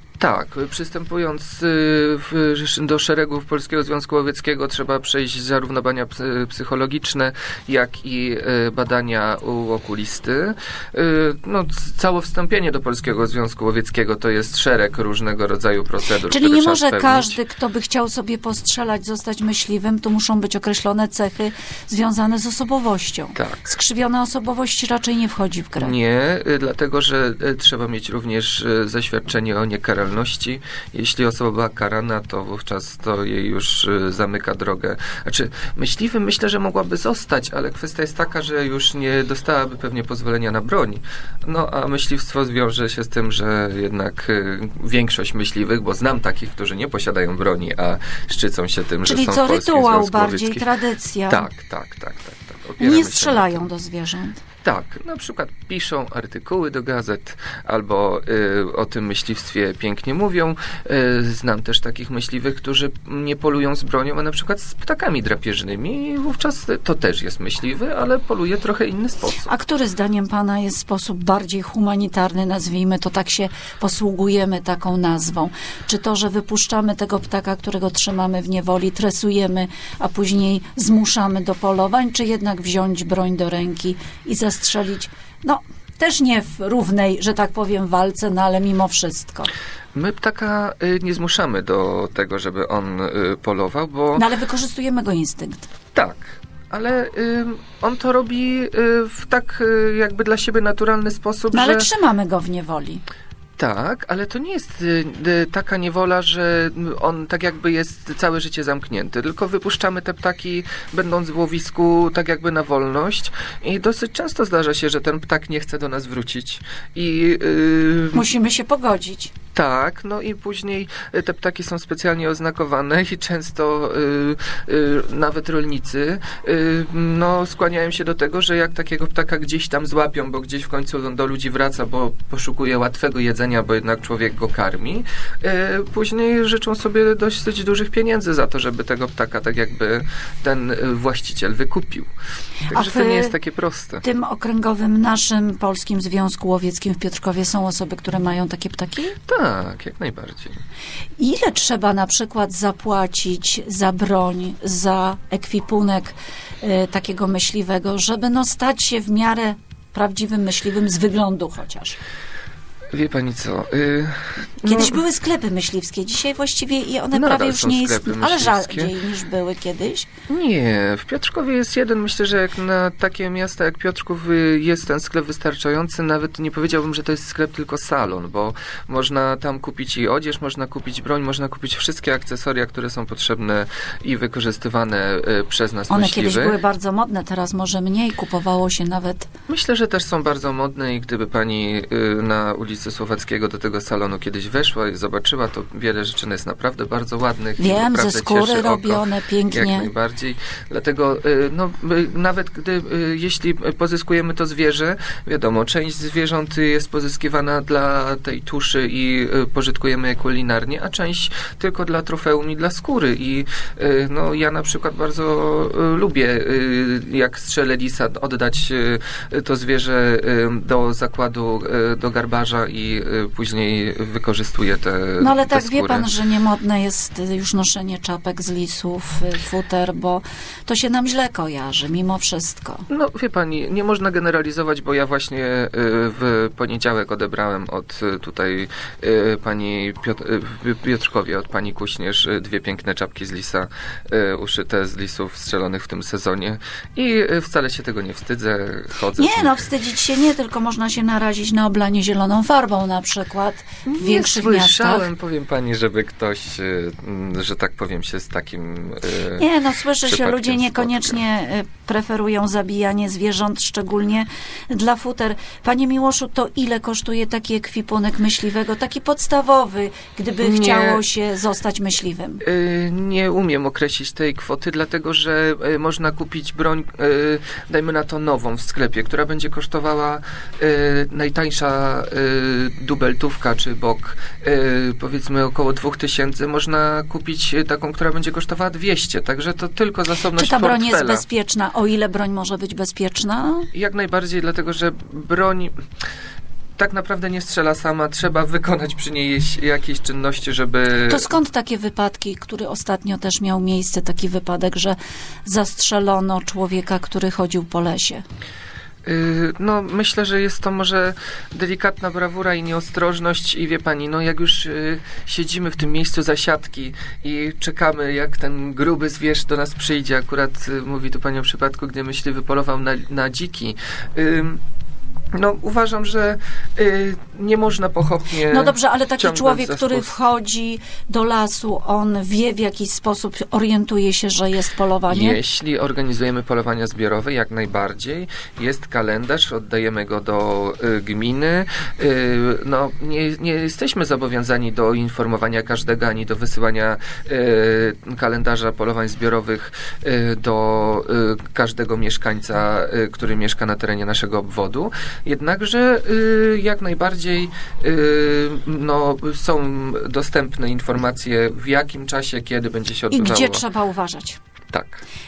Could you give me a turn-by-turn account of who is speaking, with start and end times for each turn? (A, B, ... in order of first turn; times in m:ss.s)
0:00.2-0:17.4 A
0:16.3-0:25.9 B
0:23.4-0:23.7 A
0:25.8-0:50.7 A
0:49.0-0:51.5 B
0:51.3-0:53.7 A
0:52.8-0:54.4 B
0:54.6-1:09.5 A
1:09.4-1:29.5 B
1:29.9-1:34.3 A
1:34.2-1:35.7 B
1:36.0-1:41.9 A
1:41.5-1:43.0 B
1:43.6-1:58.2 A
1:58.1-1:59.3 B
1:59.6-2:22.1 A
2:22.7-2:24.0 A
2:22.7-2:23.3 B
2:24.0-2:29.2 B
2:29.3-2:30.6 A
2:31.2-2:42.0 B
2:42.9-2:45.0 A
2:44.6-2:50.1 B
2:47.1-2:48.9 A
2:50.3-3:06.6 A
3:05.9-3:09.3 B
3:09.5-3:46.1 A
3:17.6-3:19.9 B
3:45.2-3:52.9 B
3:52.9-4:09.7 A
4:09.2-4:15.1 B
4:13.9-4:19.5 A
4:19.4-4:32.4 B
4:20.0-4:21.2 A
4:30.4-4:31.0 A
4:32.4-4:51.2 A
4:50.4-4:53.7 B
4:53.7-4:55.7 A
4:56.8-5:01.3 A
5:01.1-5:08.2 B
5:09.0-5:24.6 A
5:25.3-5:30.1 A
5:28.5-5:35.4 B
5:35.1-6:03.6 A
6:03.1-6:04.4 B
6:04.7-6:05.0 A